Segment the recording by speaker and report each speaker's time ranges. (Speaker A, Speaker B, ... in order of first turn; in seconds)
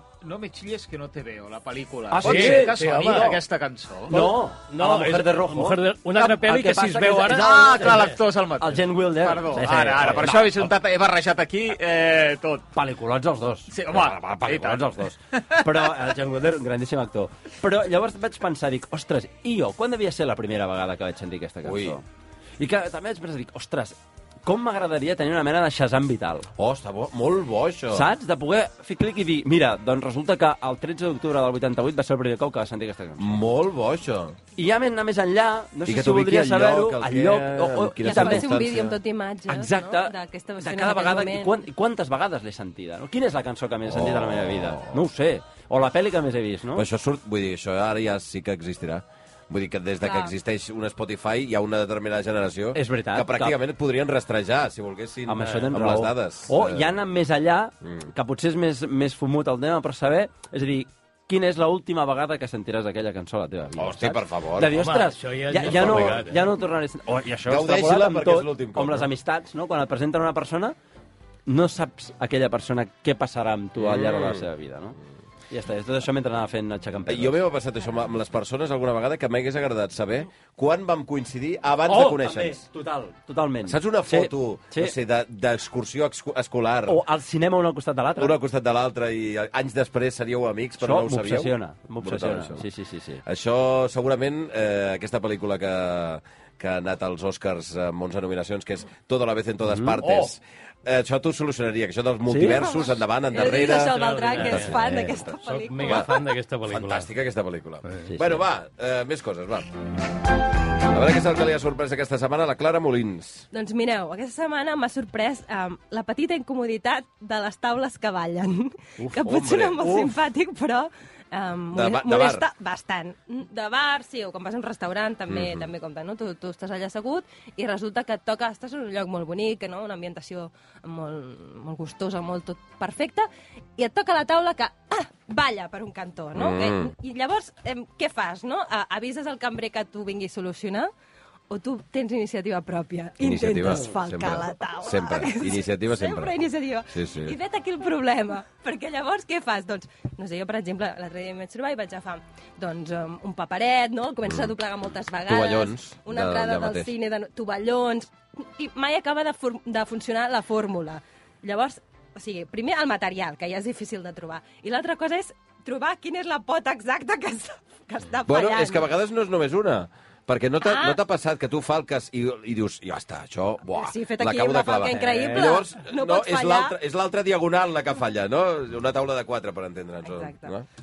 Speaker A: 0.2-4.2, 7.2-12.7, 13.7-15.6
Speaker B: 2.1-3.4, 4.1-10.7, 12.7-22.0, 22.6-26.5, 27.9-33.4, 34.5-38.6, 39.5-46.9, 52.7-53.6, 55.3-70.7, 71.5-75.0, 75.5-77.4, 81.8-85.0, 86.9-88.3, 90.8-93.2, 99.7-100.0, 102.3-102.6, 104.8-105.1, 108.1-108.4, 175.1-175.4
Speaker C: 2.2-3.4, 4.1-8.2, 64.7-66.5, 103.4-104.8, 105.3-107.1
Speaker D: 21.6-22.0, 26.6-28.1, 33.2-34.4, 35.9-39.0, 43.9-45.0, 46.7-56.9, 63.8-64.8, 65.6-66.2, 67.4-69.1, 73.8-74.4, 77.1-82.6, 83.6-87.0, 88.2-92.6, 93.2-104.8, 106.7-109.7, 110.8-113.5, 119.0-120.0, 121.7-122.5, 125.3-125.7, 136.3-136.9, 143.2-146.4, 146.9-147.3, 154.2-154.5, 155.2-156.9, 168.3-180.6
Speaker E: 38.0-41.5, 50.0-50.3, 102.4-106.2, 113.5-140.9, 141.5-168.9, 170.6-171.0, 173.7-176.8, 180.0-180.5